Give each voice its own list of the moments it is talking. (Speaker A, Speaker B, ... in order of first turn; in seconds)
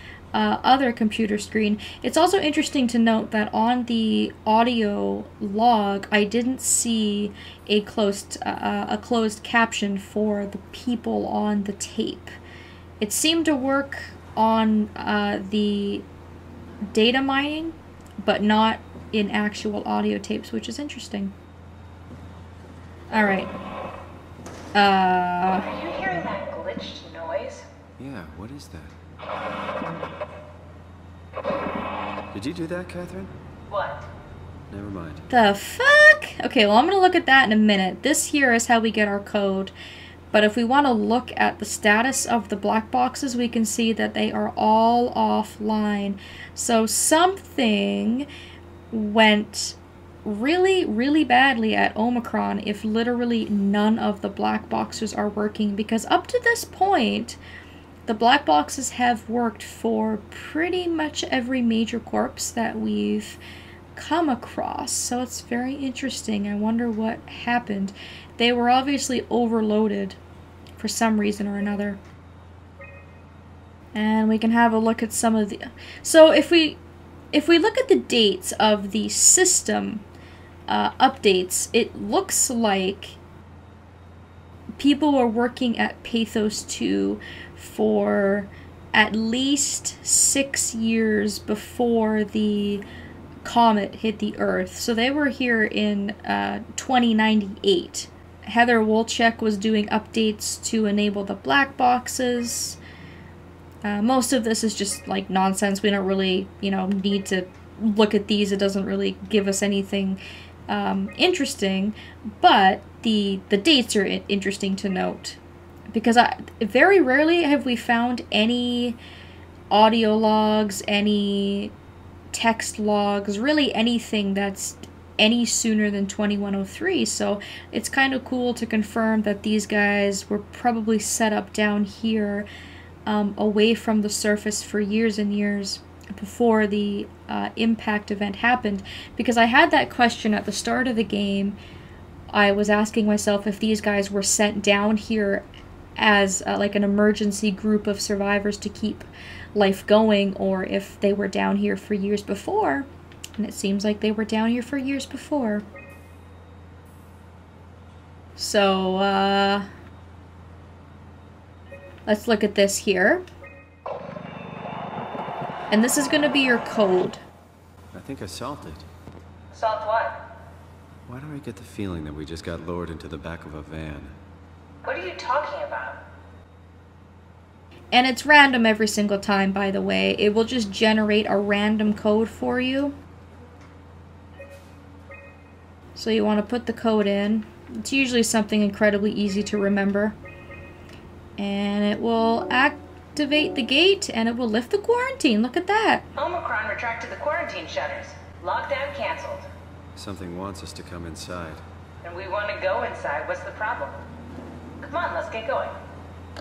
Speaker A: 0.3-12.3, 13.0-16.1, 16.9-21.3, 23.1-23.5, 24.7-25.7, 35.3-39.7, 40.3-48.3, 48.9-57.4, 58.0-63.4, 63.9-70.2, 70.8-72.0, 73.9-76.8, 77.3-80.0, 80.7-83.2, 84.8-92.8, 93.4-102.8, 103.8-115.4, 115.9-119.0, 119.7-121.7, 122.3-132.5, 133.1-141.6, 142.3-145.4, 146.0-155.6, 158.4-159.7, 162.1-163.2, 165.7-167.2, 177.9-182.9, 185.9-190.2, 191.4-196.1
Speaker B: 25.5-27.7, 33.7-34.1, 169.5-170.2, 174.8-176.0, 196.2-199.4, 202.0-204.0, 204.8-205.8
Speaker C: 28.0-28.9, 32.3-33.3, 34.7-35.2, 167.9-168.8, 171.1-174.1, 199.9-201.6